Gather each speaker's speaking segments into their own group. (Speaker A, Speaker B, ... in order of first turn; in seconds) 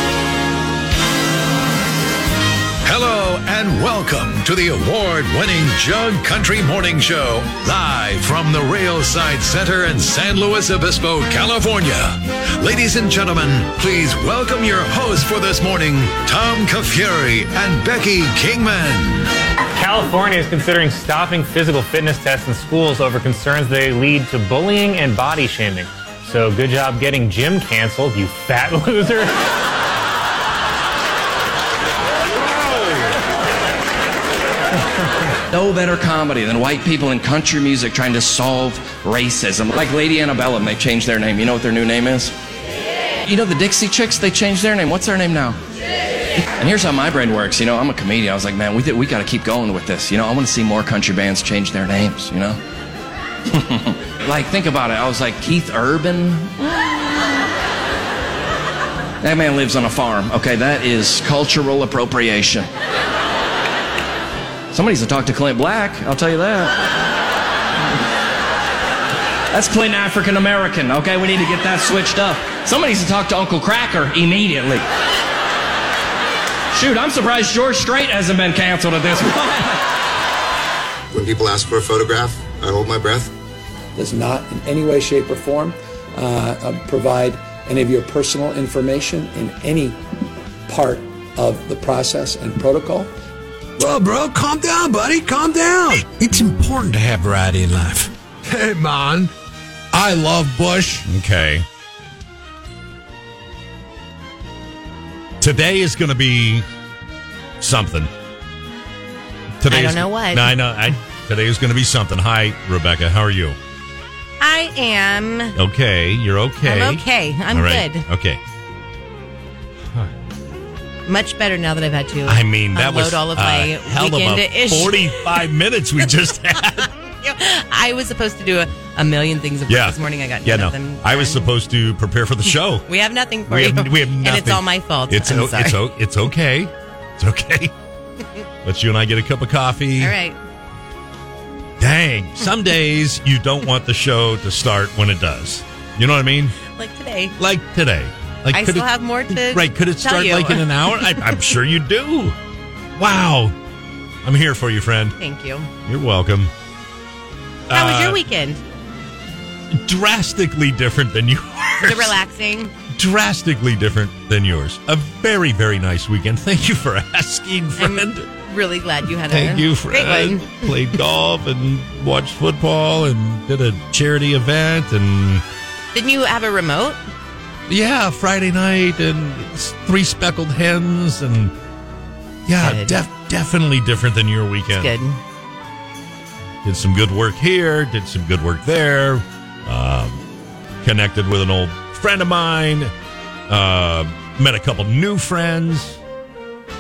Speaker A: 2.8-19.2
Speaker B: 19.7-29.4
Speaker C: 35.5-42.3, 43.3-45.6, 46.4-52.6, 53.5-57.3, 59.2-62.7, 64.7-66.8, 69.5-74.8, 76.7-79.8
Speaker D: 81.1-83.3
Speaker E: 84.0-90.0, 90.7-93.1
Speaker F: 93.8-99.3, 99.9-101.1
Speaker G: 101.0-101.7, 105.4-106.7, 107.6-108.1, 109.6-113.6, 115.6-118.4, 122.2-126.9, 129.7-132.9, 133.5-137.7, 138.6-140.2, 141.8-146.6, 147.4-152.4, 153.0-153.6, 154.2-155.2, 155.8-156.5, 157.7-158.2, 159.7-162.2, 162.9-168.3, 169.3-175.4, 177.7-181.6, 182.5-184.9, 186.6-190.2, 190.8-192.9, 193.5-196.0
Speaker H: 109.7-110.6, 114.4-115.6, 116.6-118.0, 121.0-125.4, 127.1-131.5, 132.9-135.8, 140.0-140.4, 146.6-147.3, 148.5-151.3, 155.2-155.7, 157.7-158.6, 161.8-162.8, 167.8-170.7, 175.9-177.0, 182.6-183.0, 184.8-185.2